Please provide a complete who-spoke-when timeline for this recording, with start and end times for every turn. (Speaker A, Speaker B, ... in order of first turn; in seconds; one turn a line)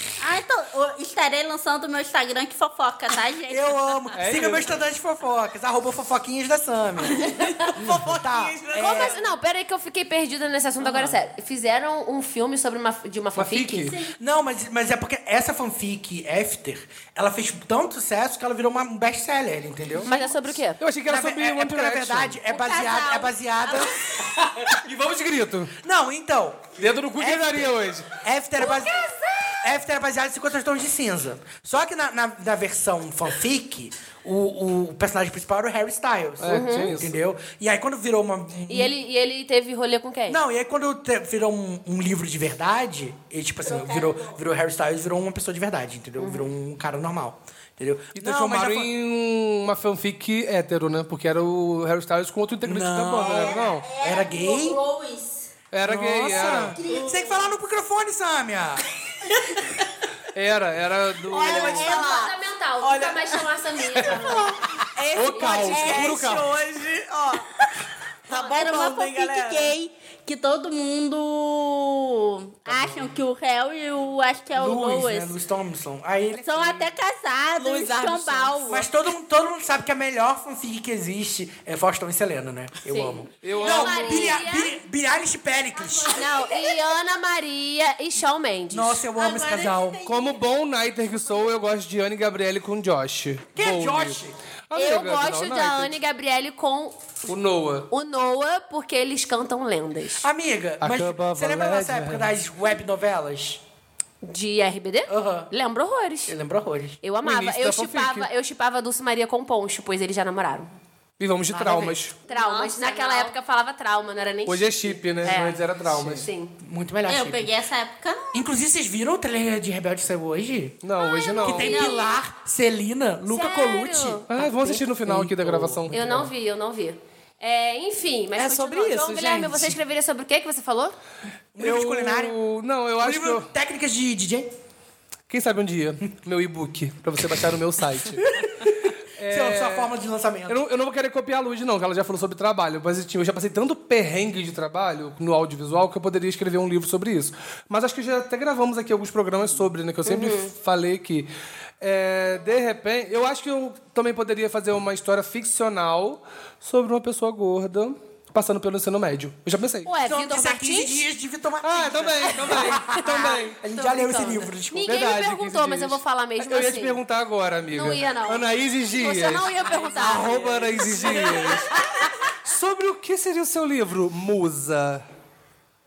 Speaker A: 0.2-4.5
Speaker B: 3.5-9.2
Speaker C: 4.2-4.7
Speaker D: 7.1-9.2
Speaker E: 8.8-13.9
Speaker D: 10.8-11.2
Speaker C: 13.3-14.0
Speaker A: 13.9-14.2
Speaker B: 14.2-20.1
Speaker E: 20.0-20.8
Speaker C: 20.8-22.4
Speaker B: 21.1-24.0
Speaker A: 22.5-24.3
Speaker C: 24.6-25.8
Speaker B: 25.8-39.0
Speaker C: 26.8-28.2
Speaker C: 36.4-37.2
Speaker E: 36.5-37.0
Speaker E: 38.7-40.4
Speaker B: 40.3-48.9
Speaker A: 43.6-44.4
Speaker E: 46.2-46.5
Speaker C: 48.1-53.9
Speaker B: 52.6-54.8
Speaker A: 53.2-55.5
Speaker C: 55.7-56.8
Speaker B: 55.8-58.9
Speaker A: 56.2-57.5
Speaker D: 56.9-57.4
Speaker D: 59.2-59.9
Speaker C: 60.3-62.0
Speaker D: 61.3-67.6
Speaker A: 61.3-62.2
Speaker E: 61.4-64.6
Speaker C: 65.1-66.5
Speaker E: 65.3-66.1
Speaker A: 65.7-66.3
Speaker D: 68.3-69.8
Speaker E: 68.3-68.8
Speaker A: 68.3-75.4
Speaker B: 74.5-76.9
Speaker A: 76.4-78.9
Speaker D: 77.6-78.8
Speaker B: 78.7-86.3
Speaker E: 82.9-84.8
Speaker C: 83.4-84.4
Speaker A: 85.9-86.8
Speaker E: 86.1-89.0
Speaker B: 88.7-90.0
Speaker A: 89.2-90.4
Speaker C: 90.0-94.2
Speaker B: 93.5-94.4
Speaker C: 94.7-96.0
Speaker E: 94.8-97.2
Speaker C: 97.3-97.9
Speaker E: 97.9-100.3
Speaker B: 100.2-103.6
Speaker C: 100.8-102.3
Speaker E: 104.2-106.3
Speaker B: 105.1-105.5
Speaker B: 106.3-107.0
Speaker E: 107.0-110.7
Speaker C: 107.2-108.3
Speaker C: 111.2-112.2
Speaker B: 111.5-112.0
Speaker E: 112.3-116.5
Speaker A: 112.3-113.3
Speaker C: 114.5-116.3
Speaker B: 116.6-117.5
Speaker A: 117.1-118.5
Speaker B: 118.3-120.8
Speaker C: 120.8-121.9
Speaker A: 121.0-122.2
Speaker B: 121.4-126.3
Speaker E: 123.3-124.8
Speaker C: 124.3-126.3
Speaker E: 125.9-130.9
Speaker D: 128.4-129.8
Speaker B: 131.6-132.4
Speaker C: 131.6-133.5
Speaker B: 133.0-134.5
Speaker C: 135.3-139.9
Speaker B: 138.4-138.7
Speaker B: 139.3-140.6
Speaker C: 140.5-151.3
Speaker E: 150.1-150.5
Speaker C: 151.8-159.9
Speaker E: 159.8-161.0
Speaker B: 160.0-165.0
Speaker C: 161.6-163.6
Speaker E: 162.4-167.0
Speaker C: 164.8-171.8
Speaker E: 167.7-171.9
Speaker D: 169.8-170.2
Speaker D: 170.9-171.8
Speaker C: 172.4-175.0